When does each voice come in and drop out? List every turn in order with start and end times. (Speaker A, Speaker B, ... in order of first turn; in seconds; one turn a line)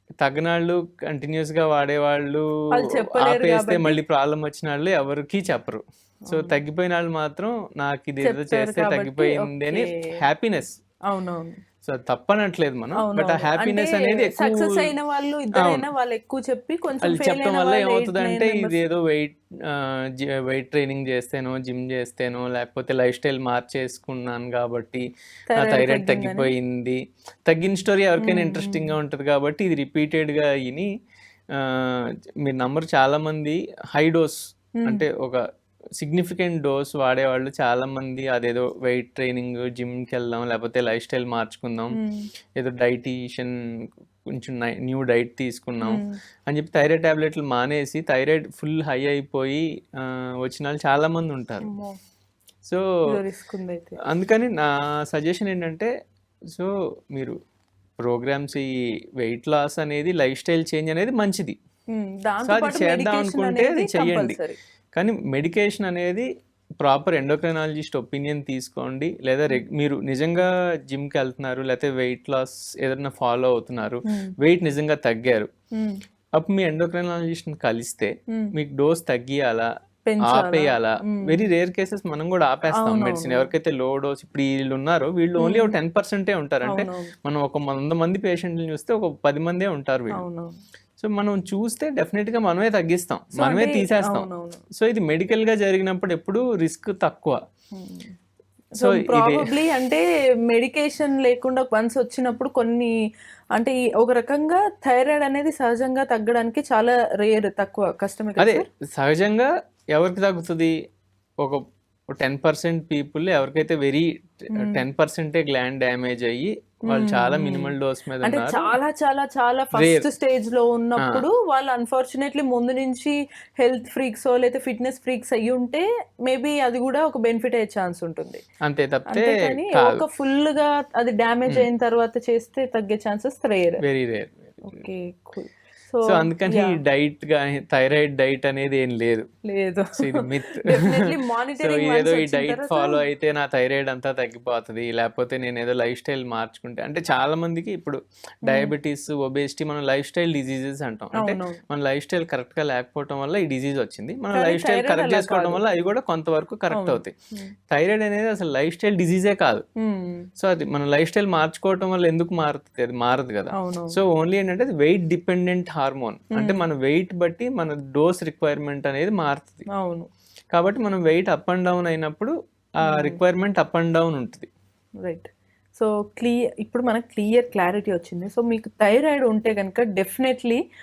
Speaker A: 0.2-10.8
Speaker B: 2.7-4.0
Speaker B: 6.3-6.6
Speaker B: 8.2-10.1
Speaker B: 11.1-11.6
Speaker A: 11.8-14.9
Speaker B: 12.9-18.8
Speaker A: 15.6-15.9
Speaker A: 17.0-25.0
Speaker B: 25.5-26.5
Speaker A: 25.6-30.9
Speaker B: 28.2-28.9
Speaker A: 31.5-35.4
Speaker B: 34.8-35.0
Speaker A: 36.0-42.0
Speaker B: 41.9-42.3
Speaker A: 42.6-43.5
Speaker A: 44.4-51.7
Speaker B: 45.8-46.2
Speaker B: 51.6-52.0
Speaker B: 53.1-54.0
Speaker A: 54.1-55.9
Speaker A: 56.5-57.4
Speaker A: 58.0-61.6
Speaker B: 61.9-64.6
Speaker A: 62.4-64.4
Speaker A: 65.0-66.3
Speaker A: 66.8-75.5
Speaker B: 74.1-74.3
Speaker A: 76.4-79.7
Speaker B: 80.1-81.4
Speaker A: 80.2-90.2
Speaker B: 82.7-83.5
Speaker B: 85.4-85.8
Speaker B: 86.6-87.1
Speaker B: 90.1-90.5
Speaker A: 91.0-97.4
Speaker B: 93.4-94.6
Speaker B: 97.8-98.1
Speaker B: 98.8-102.9
Speaker A: 98.8-99.5
Speaker B: 103.5-108.7
Speaker A: 108.4-110.7
Speaker A: 112.2-118.8
Speaker B: 114.5-114.8
Speaker B: 116.9-128.4
Speaker A: 119.7-120.1
Speaker A: 121.0-121.2
Speaker A: 128.6-130.0
Speaker B: 129.1-133.8
Speaker A: 133.8-134.8
Speaker B: 134.7-136.8
Speaker A: 136.1-139.3
Speaker B: 139.5-143.0
Speaker A: 140.0-157.1
Speaker B: 148.5-148.8
Speaker B: 151.1-151.6
Speaker B: 154.3-155.7
Speaker B: 156.7-157.5
Speaker A: 157.7-159.6
Speaker B: 159.8-160.3
Speaker A: 160.4-169.7
Speaker B: 163.5-164.0
Speaker B: 166.3-166.6
Speaker B: 169.7-170.1
Speaker A: 170.5-174.5
Speaker B: 172.8-173.2
Speaker B: 175.0-180.6